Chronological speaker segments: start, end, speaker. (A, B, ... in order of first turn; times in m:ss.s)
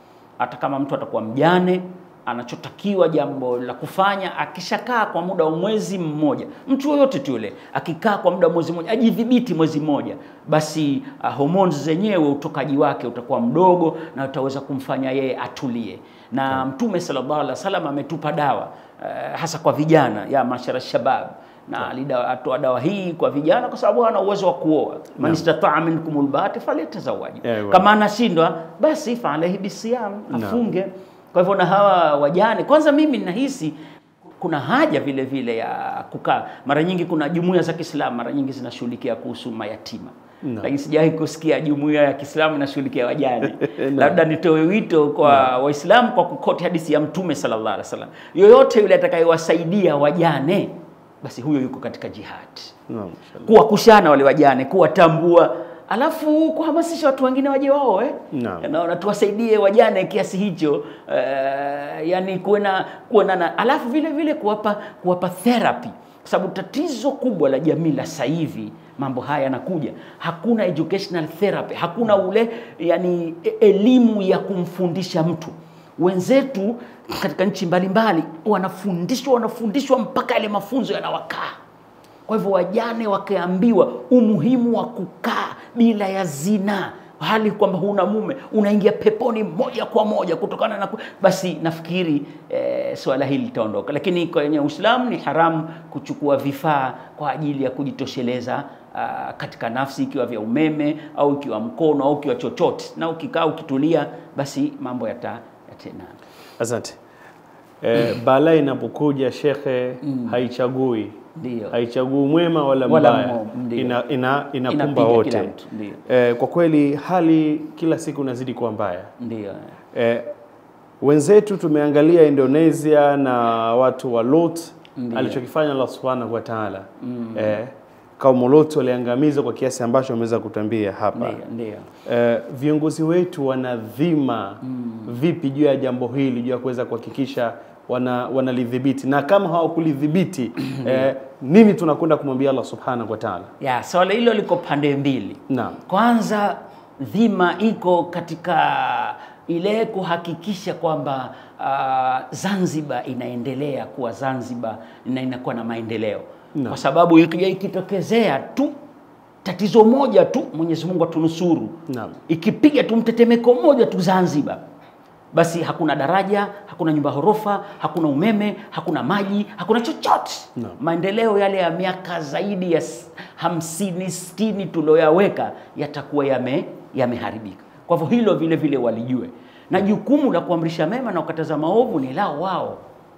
0:00.4-0:33.8 A
0:27.4-0:27.9 B
0:30.3-0:30.6 B
0:34.4-0:52.7 A
0:40.4-0:40.7 B
0:43.7-0:44.2 B
0:52.9-0:53.5 B
0:53.4-1:21.5 A
0:58.3-0:58.7 B
1:22.3-1:46.2 A
1:46.6-1:47.0 B
1:47.8-1:51.2 B
1:50.0-1:50.4 A
1:51.4-1:51.8 A
1:51.7-1:55.5 B
1:52.8-1:54.0 A
1:54.7-1:56.0 A
1:56.1-1:59.1 B
1:59.2-1:59.7 A
1:59.9-2:00.3 B
2:01.0-2:11.4 B
2:05.0-2:05.4 A
2:07.0-2:07.6 A
2:11.2-2:11.9 A
2:12.0-2:23.5 B
2:14.6-2:15.1 A
2:20.6-2:21.1 A
2:23.6-2:38.7 A
2:25.5-2:25.8 B
2:36.6-2:36.8 B
2:39.4-2:44.6 A
2:41.9-2:42.2 B
2:45.3-3:02.8 A